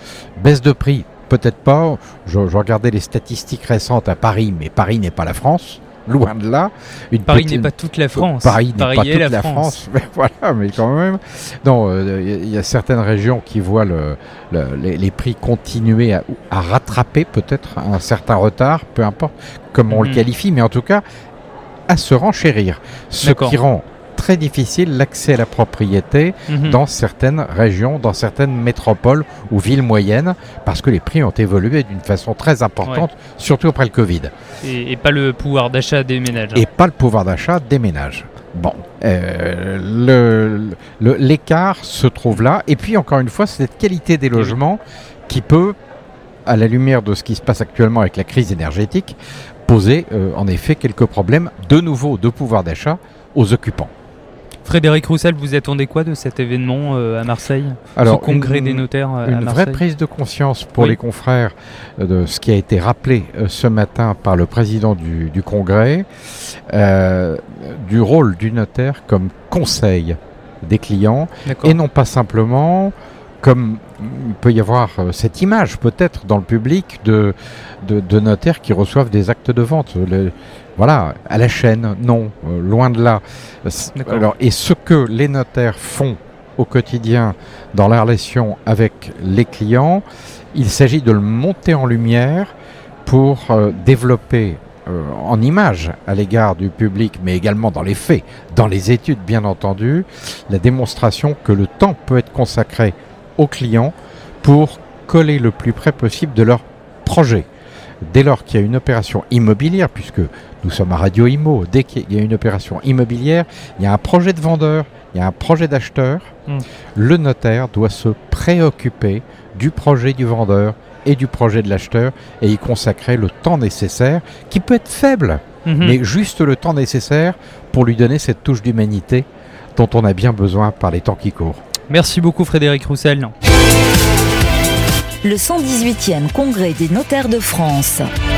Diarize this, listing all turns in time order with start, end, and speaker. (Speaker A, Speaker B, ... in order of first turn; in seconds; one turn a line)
Speaker A: 0.4-21.0
Speaker B: 7.3-9.8
Speaker B: 19.9-20.2
Speaker A: 21.9-34.3
Speaker B: 23.2-23.6
Speaker B: 26.5-26.8
Speaker B: 34.6-36.6
Speaker A: 36.5-45.7
Speaker A: 46.5-49.1
Speaker A: 49.7-53.9
Speaker B: 54.6-59.8
Speaker A: 58.0-66.1
Speaker A: 66.7-92.5
Speaker B: 71.4-71.8
Speaker B: 84.0-84.2
Speaker A: 93.0-107.5
Speaker A: 108.0-116.3
Speaker A: 117.0-131.6
Speaker B: 125.6-126.0
Speaker B: 131.9-133.3
Speaker C: 135.2-138.1